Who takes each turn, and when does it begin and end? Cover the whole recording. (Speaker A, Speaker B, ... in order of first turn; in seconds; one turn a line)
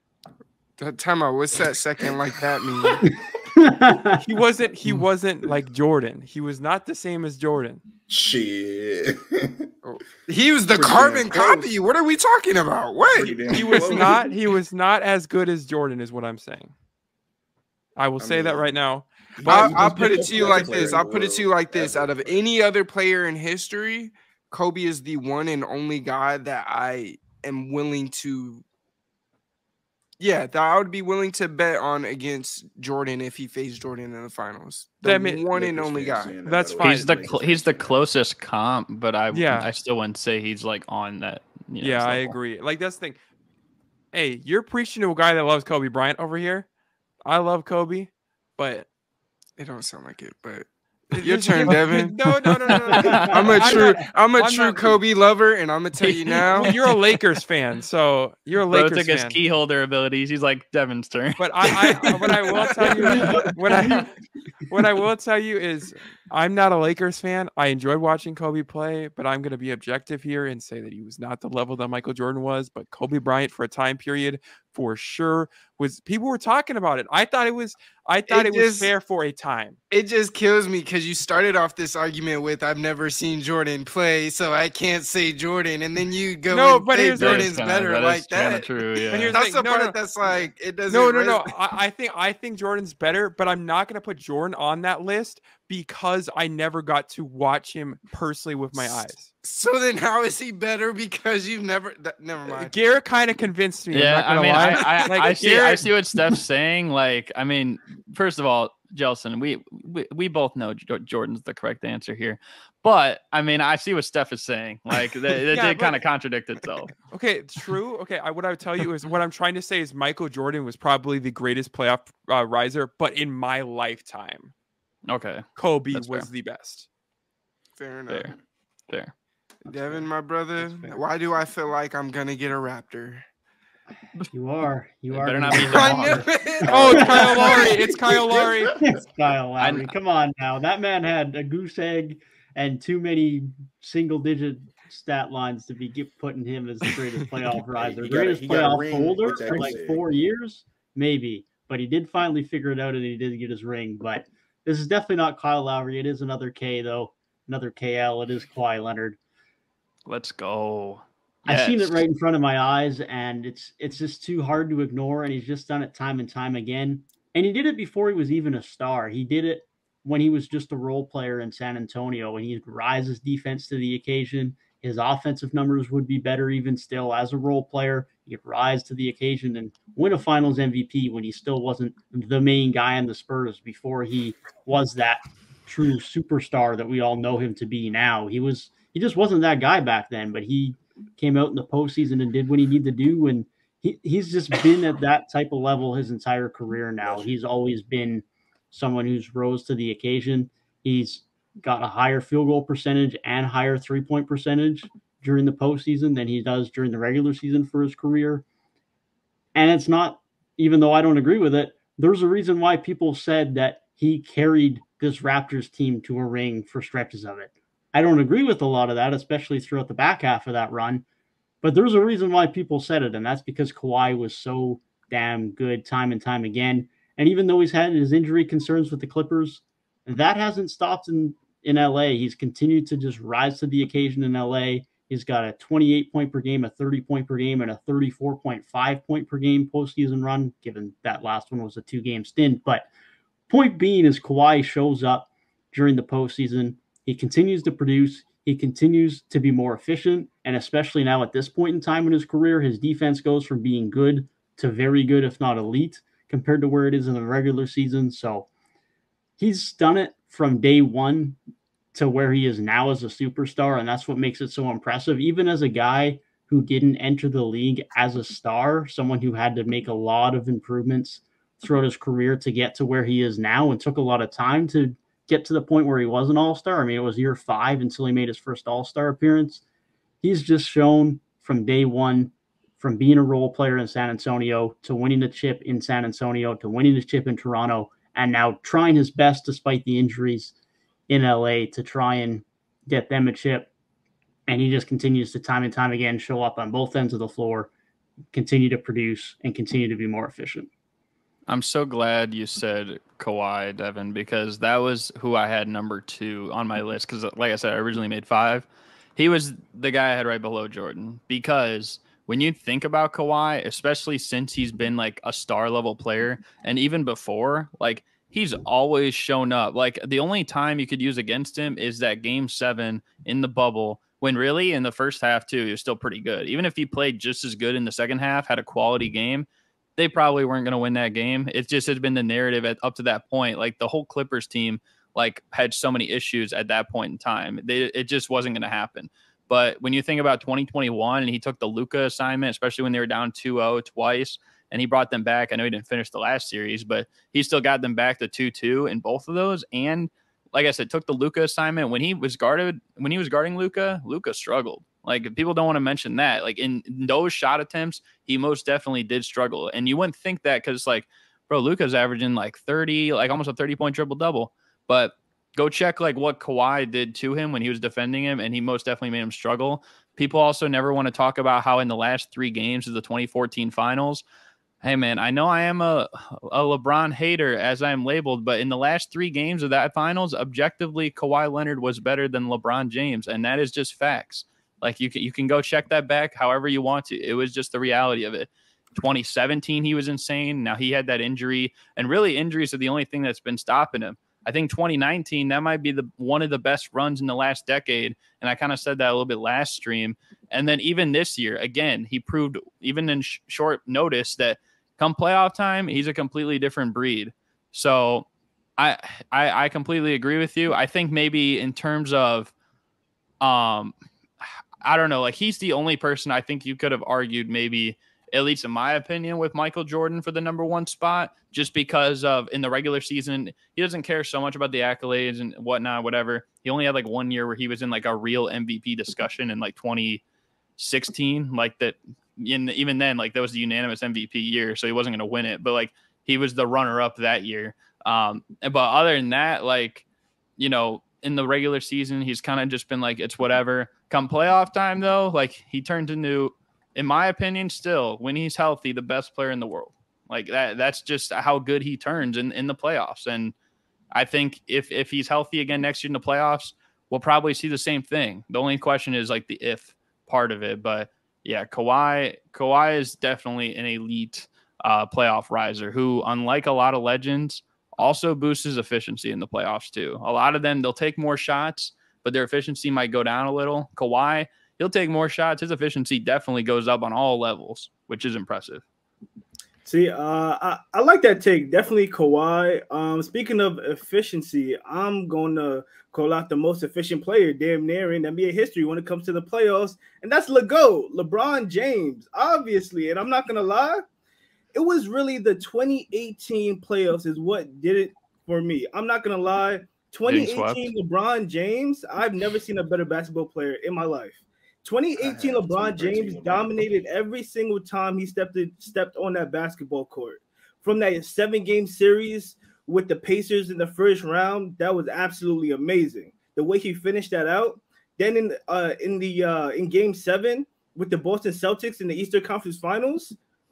Speaker A: 0.8-3.0
Speaker B: 3.1-4.2
Speaker C: 4.2-7.8
Speaker D: 8.1-9.7
Speaker A: 9.8-14.1
Speaker D: 10.7-11.7
Speaker D: 13.1-14.3
Speaker C: 13.5-16.7
Speaker C: 17.9-21.0
Speaker D: 18.2-18.7
Speaker D: 19.4-22.4
Speaker A: 19.4-28.6
Speaker A: 30.2-36.4
Speaker C: 35.0-35.4
Speaker D: 35.5-38.0
Speaker C: 36.4-37.2
Speaker E: 36.8-42.3
Speaker C: 39.3-39.7
Speaker C: 41.8-43.2
Speaker C: 44.1-46.7
Speaker C: 47.2-48.9
Speaker A: 49.6-50.7
Speaker C: 51.1-55.0
Speaker A: 51.2-52.1
Speaker A: 52.7-56.7
Speaker E: 52.9-53.2
Speaker B: 53.0-53.3
Speaker E: 56.0-57.2
Speaker C: 56.5-59.4
Speaker E: 58.7-61.8
Speaker C: 61.4-64.1
Speaker A: 63.0-63.4
Speaker B: 63.2-63.5
Speaker C: 64.7-79.8
Speaker A: 78.3-78.9
Speaker A: 79.9-88.7
Speaker C: 86.5-87.5
Speaker E: 87.2-89.4
Speaker C: 89.1-99.3
Speaker A: 89.3-91.5
Speaker A: 98.8-102.7
Speaker C: 102.5-105.9
Speaker E: 103.9-116.9
Speaker C: 115.5-116.0
Speaker C: 117.1-124.5
Speaker E: 125.1-126.3
Speaker C: 125.6-126.8
Speaker A: 127.8-128.3
Speaker A: 129.6-133.2
Speaker B: 134.3-137.8
Speaker E: 135.1-136.2
Speaker A: 135.5-138.5
Speaker C: 136.7-138.8
Speaker B: 138.6-159.2
Speaker E: 139.6-139.9
Speaker D: 147.7-150.0
Speaker E: 160.1-162.0
Speaker B: 161.4-208.4
Speaker B: 209.5-221.0
Speaker B: 221.6-242.9
Speaker B: 243.5-258.5
Speaker B: 259.4-261.4
Speaker B: 261.9-279.6
Speaker B: 280.2-290.5
Speaker B: 291.1-293.7
Speaker B: 294.5-297.7
Speaker B: 298.3-300.7
Speaker E: 301.5-374.2
Speaker E: 374.8-408.3
Speaker E: 408.8-412.5
Speaker E: 413.4-430.2
Speaker E: 430.8-440.0
Speaker E: 440.6-453.5
Speaker E: 454.1-478.8
Speaker F: 479.8-494.0
Speaker F: 494.7-523.4
Speaker E: 500.2-500.9
Speaker D: 505.1-506.8